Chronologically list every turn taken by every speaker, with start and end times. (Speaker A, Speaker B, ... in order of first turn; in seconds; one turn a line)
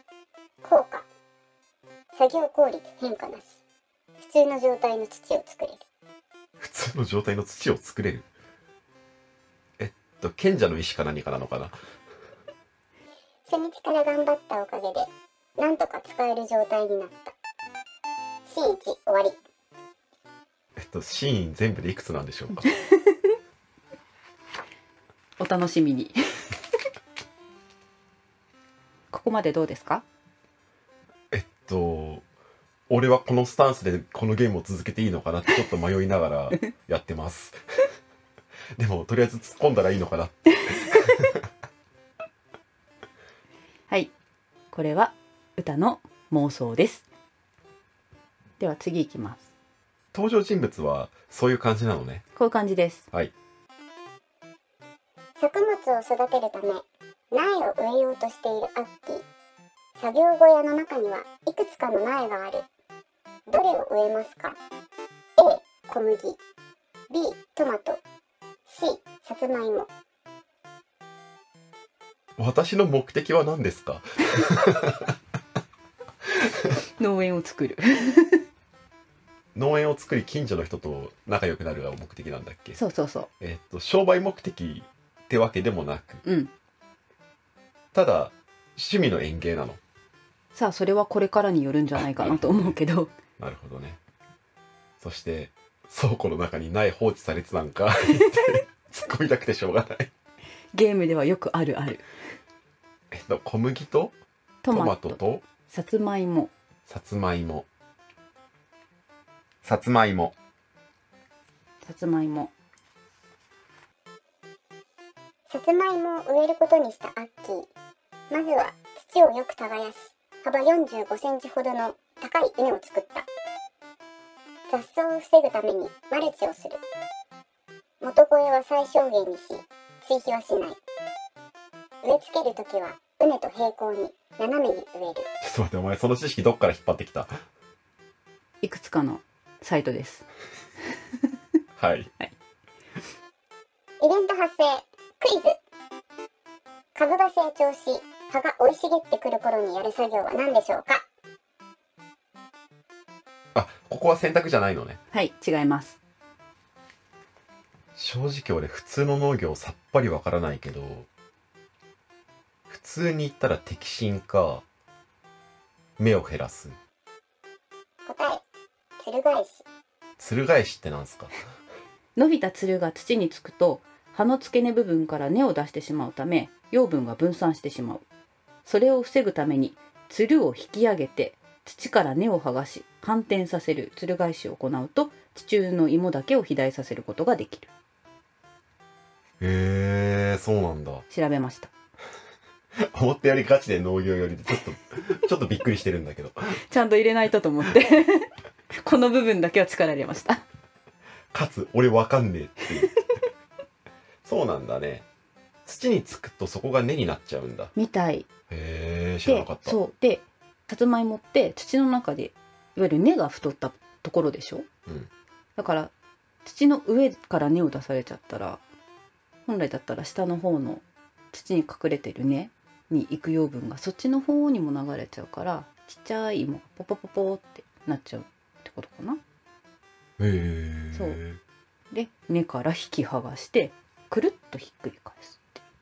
Speaker A: 0.6-1.1
Speaker A: 2.1-3.6
Speaker A: 4.2-5.8
Speaker B: 6.6-8.3
Speaker B: 9.8-11.8
Speaker A: 13.5-17.3
Speaker A: 18.5-19.4
Speaker B: 20.8-22.7
Speaker C: 25.4-26.1
Speaker C: 29.1-30.0
Speaker B: 31.3-32.2
Speaker B: 32.9-37.6
Speaker B: 38.8-41.4
Speaker C: 44.7-47.0
Speaker C: 48.6-49.5
Speaker B: 50.1-52.2
Speaker C: 52.4-53.1
Speaker A: 55.4-59.2
Speaker A: 60.0-62.7
Speaker A: 63.5-64.6
Speaker A: 65.4-66.4
Speaker A: 67.1-68.0
Speaker A: 68.7-69.9
Speaker B: 72.4-75.2
Speaker B: 76.4-76.7
Speaker C: 77.0-78.4
Speaker B: 79.5-82.8
Speaker C: 82.8-83.3
Speaker B: 83.4-86.2
Speaker C: 86.2-86.5
Speaker B: 87.9-89.8
Speaker C: 90.5-93.1
Speaker B: 92.0-92.8
Speaker B: 93.4-94.0
Speaker B: 95.0-100.1
Speaker C: 100.7-102.1
Speaker B: 103.1-104.1
Speaker C: 104.6-106.5
Speaker B: 104.7-105.4
Speaker B: 106.9-107.7
Speaker B: 109.6-110.3
Speaker C: 111.8-112.5
Speaker A: 115.5-117.7
Speaker A: 118.3-123.3
Speaker A: 124.7-126.8
Speaker A: 128.0-130.8
Speaker A: 132.0-135.3
Speaker B: 135.4-137.4
Speaker C: 138.6-140.3
Speaker B: 141.8-142.1
Speaker A: 144.0-145.6
Speaker A: 146.9-151.0
Speaker B: 153.5-155.0
Speaker C: 155.1-156.0
Speaker B: 158.0-161.1
Speaker B: 162.7-164.6
Speaker B: 166.0-166.8
Speaker A: 168.1-168.4
Speaker A: 169.0-169.7
Speaker B: 170.2-171.3
Speaker C: 172.2-178.0
Speaker C: 178.7-187.7
Speaker B: 189.4-191.0
Speaker C: 191.1-191.7
Speaker B: 192.8-196.6
Speaker C: 196.7-200.4
Speaker B: 201.3-202.9
Speaker B: 204.2-205.1
Speaker B: 205.7-207.7
Speaker C: 207.8-208.3
Speaker B: 208.5-209.8
Speaker C: 209.3-214.7
Speaker C: 215.6-215.9
Speaker C: 216.4-218.6
Speaker C: 219.5-229.2
Speaker B: 230.2-231.4
Speaker C: 230.9-231.2
Speaker C: 231.9-235.6